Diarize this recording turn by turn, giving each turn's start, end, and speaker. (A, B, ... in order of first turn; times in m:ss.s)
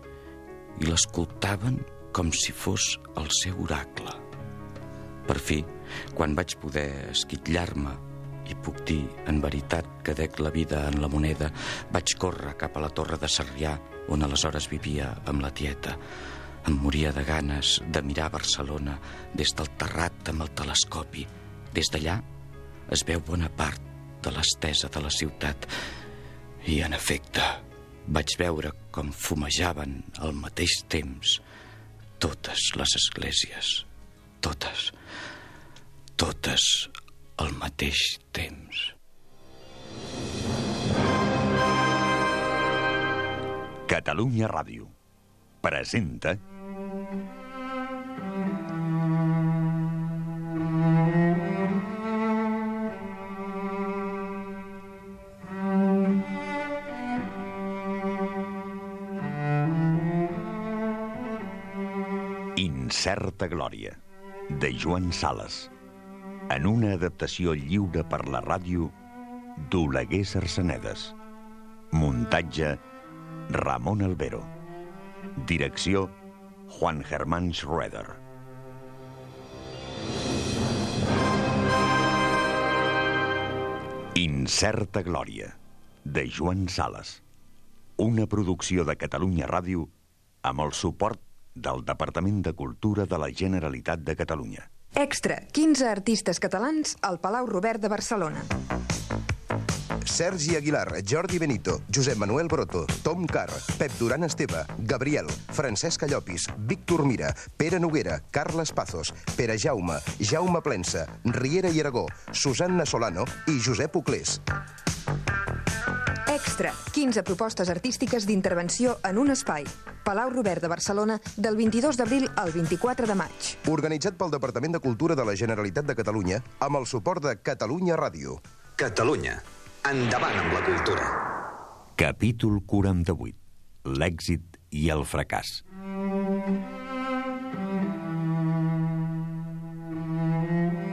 0:00.8-0:04.2 A
0:05.3-0:16.0 A
0:16.7-0:22.2 A
0:22.9-0:25.7 A
0:26.6-0:31.4 A
0:32.2-0:33.9 A
0:34.4-0:35.0 A
0:36.2-0:39.0 A
0:43.9-0:44.9 B
0:45.6-0:46.4 B
1:02.6-1:05.7 B
1:06.5-1:08.9 B
1:09.6-1:11.2 B
1:11.9-1:12.8 B
1:13.5-1:14.5 B
1:15.4-1:16.2 B
1:16.7-1:18.2 B
1:24.2-1:27.2 B
1:28.0-1:29.9 B
1:30.4-1:34.7 B
1:35.0-1:38.5 C
1:40.1-1:54.4 D
1:56.3-2:03.6 C
2:03.7-2:08.4 D
2:08.8-2:11.2 E
2:12.0-2:15.6 B